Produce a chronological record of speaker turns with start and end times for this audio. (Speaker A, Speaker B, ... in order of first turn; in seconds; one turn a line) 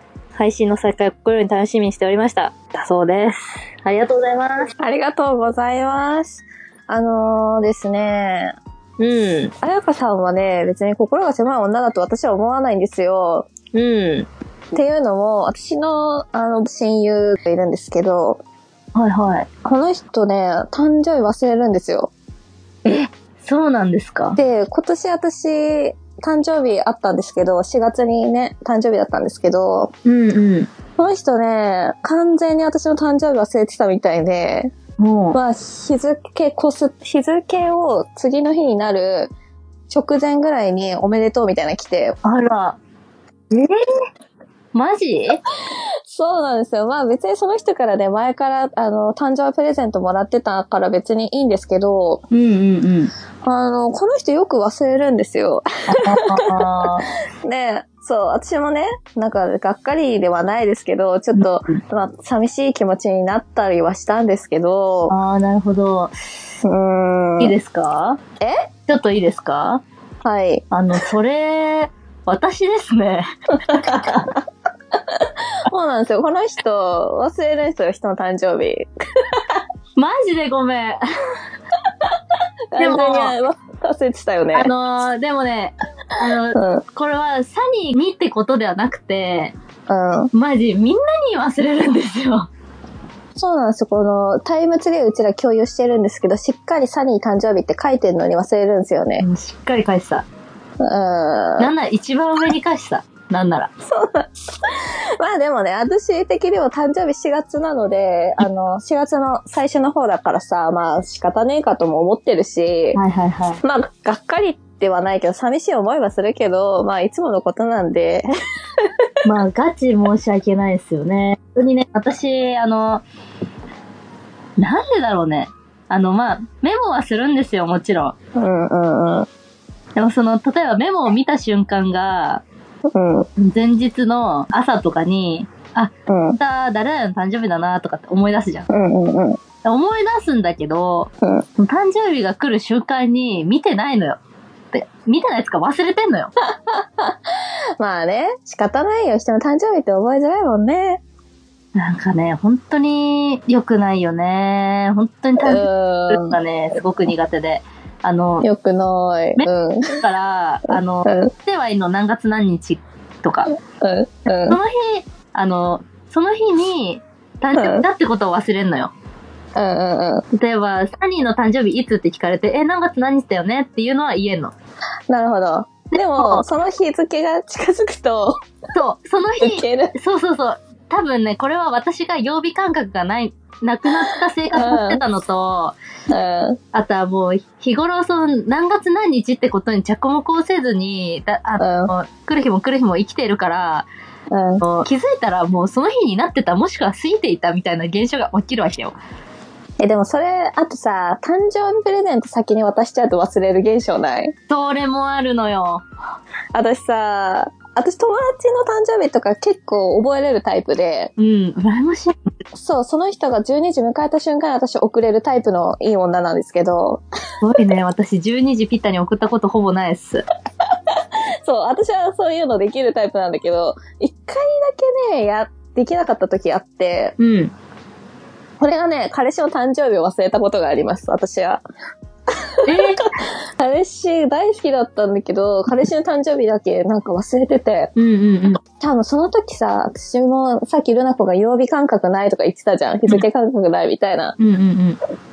Speaker A: 0.4-4.7
Speaker B: 4.8-8.6
Speaker A: 9.0-9.5
Speaker B: 9.6-13.5
Speaker A: 13.7-14.3
Speaker B: 14.7-18.4
Speaker A: 18.9-19.5
Speaker B: 19.6-22.1
Speaker A: 22.9-24.4
Speaker B: 24.4-29.9
Speaker A: 30.1-30.7
Speaker B: 31.0-34.7
Speaker A: 35.0-35.4
Speaker B: 35.3-39.3
Speaker B: 39.9-42.2
Speaker A: 42.2-42.8
Speaker A: 43.5-43.9
Speaker A: 44.7-45.4
Speaker B: 46.1-52.2
Speaker A: 52.3-53.1
Speaker B: 53.4-56.5
Speaker A: 55.9-57.1
Speaker B: 57.4-65.1
Speaker A: 61.4-61.8
Speaker A: 65.1-66.1
Speaker B: 66.6-67.5
Speaker A: 67.4-68.2
Speaker B: 68.4-68.7
Speaker A: 68.9-69.8
Speaker B: 70.2-70.7
Speaker A: 70.7-74.2
Speaker B: 73.7-74.4
Speaker B: 75.1-79.6
Speaker A: 80.0-81.1
Speaker B: 82.7-84.7
Speaker A: 82.8-83.3
Speaker A: 84.5-89.5
Speaker B: 86.5-86.8
Speaker B: 89.9-90.3
Speaker A: 90.3-92.5
Speaker B: 93.4-99.2
Speaker A: 99.2-100.3
Speaker B: 100.8-101.7
Speaker A: 101.6-103.7
Speaker B: 103.9-113.0
Speaker A: 113.0-113.6
Speaker B: 113.6-118.3
Speaker A: 119.2-123.0
Speaker A: 124.6-128.2
Speaker B: 128.4-129.3
Speaker A: 130.0-132.4
Speaker B: 132.9-133.3
Speaker A: 133.4-138.7
Speaker B: 136.1-136.4
Speaker B: 138.7-139.4
Speaker A: 139.6-144.2
Speaker A: 144.7-146.3
Speaker B: 146.5-151.0
Speaker A: 151.8-158.5
Speaker B: 155.4-156.4
Speaker B: 158.4-160.0
Speaker A: 159.4-163.5
Speaker B: 161.1-161.3
Speaker B: 163.8-164.6
Speaker A: 164.5-168.9
Speaker B: 167.6-167.8
Speaker B: 169.6-170.2
Speaker A: 170.3-174.5
Speaker B: 175.1-178.4
Speaker A: 176.0-176.4
Speaker A: 178.7-185.8
Speaker B: 179.4-179.9
Speaker B: 184.5-185.0
Speaker B: 186.1-186.6
Speaker A: 186.7-193.9
Speaker B: 191.6-191.9
Speaker B: 194.3-194.6
Speaker A: 194.6-199.0
Speaker B: 199.8-204.3
Speaker A: 204.5-205.8
Speaker B: 206.5-211.1
Speaker A: 211.2-212.3
Speaker B: 212.6-217.0
Speaker A: 217.4-220.2
Speaker B: 220.9-227.1
Speaker A: 227.2-227.5
Speaker B: 228.6-231.6
Speaker B: 232.3-237.9
Speaker A: 232.7-233.1
Speaker A: 238.0-238.6
Speaker B: 238.8-244.3
Speaker A: 244.4-245.0